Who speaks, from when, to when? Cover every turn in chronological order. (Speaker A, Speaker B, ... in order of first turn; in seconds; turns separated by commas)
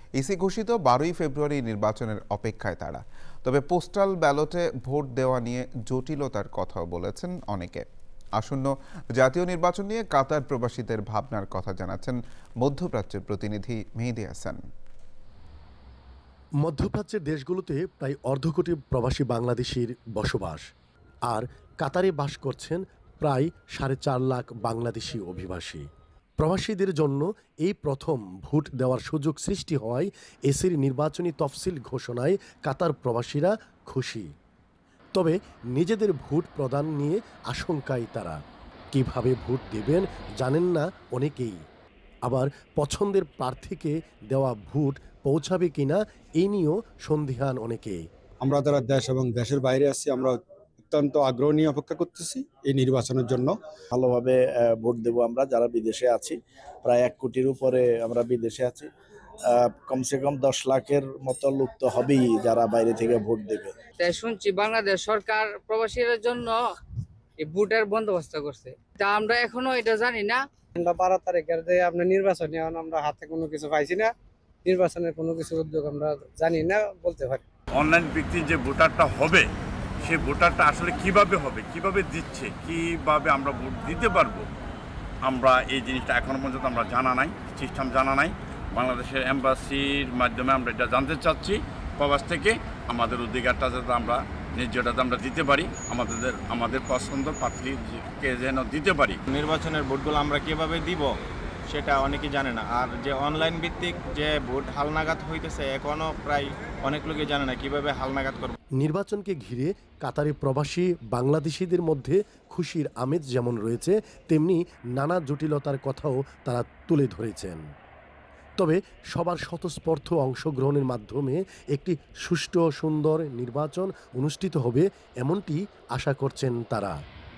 Speaker A: 0.2-7.8, Speaker A: 8.4-14.6, Speaker B: 16.6-20.6, Speaker B: 21.3-25.8, Speaker B: 26.4-34.3, Speaker B: 35.1-38.4, Speaker B: 38.9-41.6, Speaker B: 42.2-48.0, Speaker C: 48.4-50.4, Speaker C: 50.9-53.5, Speaker D: 53.9-58.9, Speaker D: 59.4-63.8, Speaker E: 64.0-66.6, Speaker E: 67.4-70.4, Speaker F: 70.8-74.1, Speaker F: 74.6-77.4, Speaker G: 77.8-79.5, Speaker G: 80.0-84.5, Speaker G: 85.2-99.2, Speaker H: 99.3-101.1, Speaker H: 101.7-108.5, Speaker B: 108.8-117.6, Speaker B: 118.6-126.9